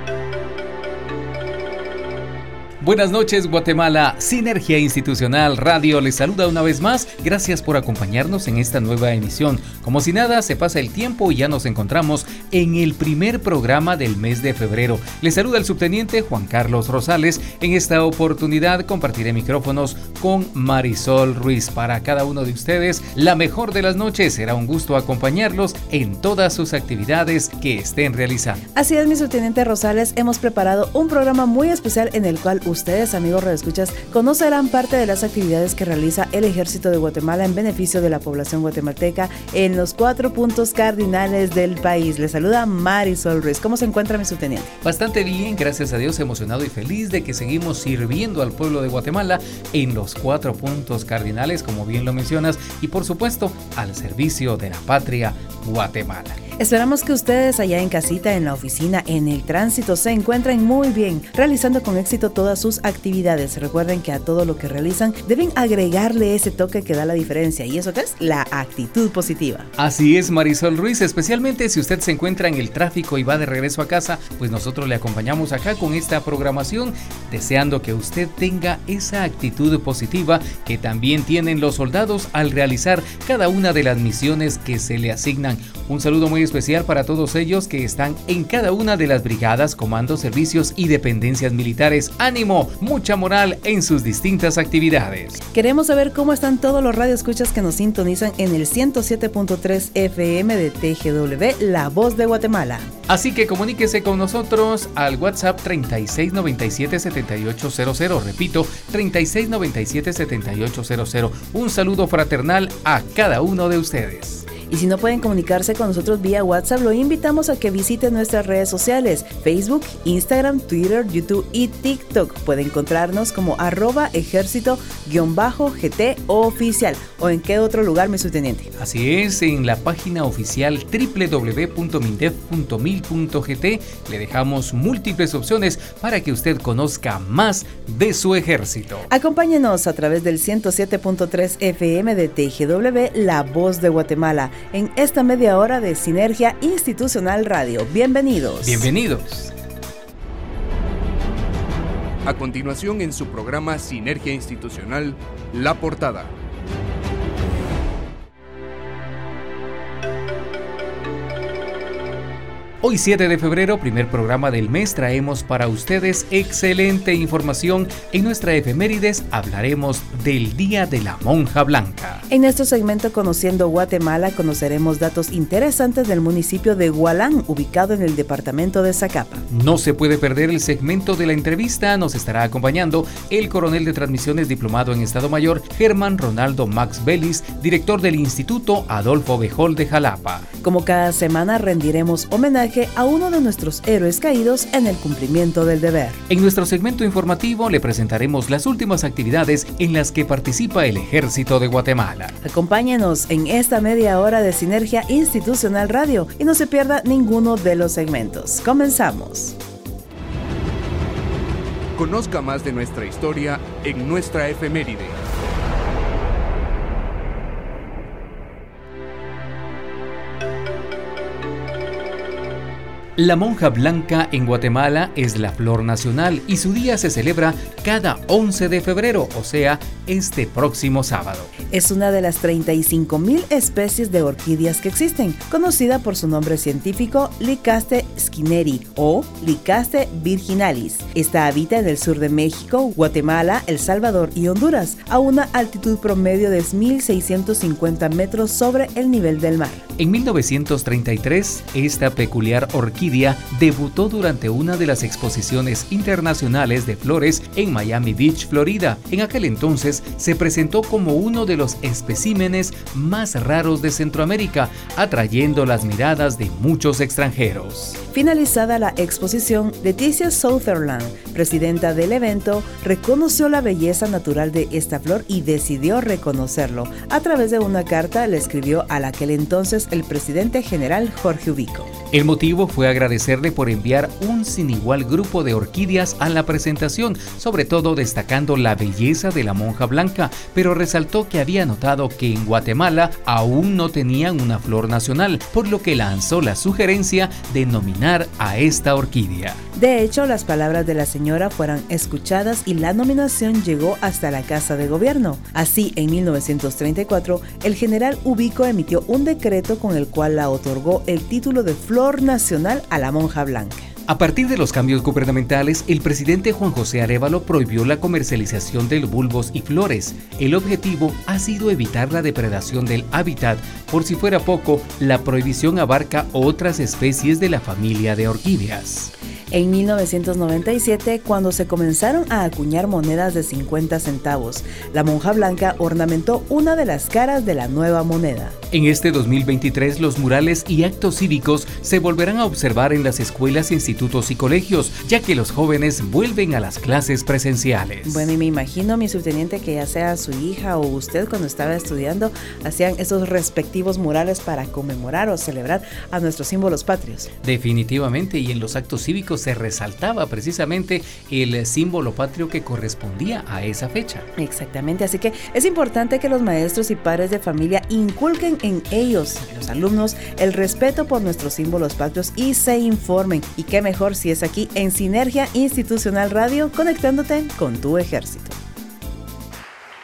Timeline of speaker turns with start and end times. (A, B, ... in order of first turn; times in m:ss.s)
0:02.8-0:28.6 A
0:28.7-0:44.7 B
0:44.8-0:56.4 A
0:56.6-1:09.7 B
1:09.8-1:35.4 A
1:35.5-1:42.9 B
1:43.1-1:54.5 A
1:54.6-2:08.7 B
2:08.8-2:19.1 A
2:19.1-2:28.9 B
2:28.6-2:29.5 A
2:32.2-2:36.3 C
2:42.8-2:52.2 A
2:52.3-2:59.4 B
2:59.5-3:10.4 A
3:10.6-3:16.2 B
3:16.3-3:22.3 A
3:22.4-3:29.6 B
3:31.9-3:35.2 C
3:43.2-3:51.5 A
3:51.7-4:09.8 B
4:10.0-4:28.0 A
4:28.1-4:41.9 B
4:42.1-4:59.6 A
4:59.8-5:13.9 B
5:14.1-5:29.1 A
5:29.5-5:38.5 B
5:38.7-5:48.3 A
5:48.0-5:57.3 B
5:57.4-6:04.3 A
6:04.4-6:18.6 B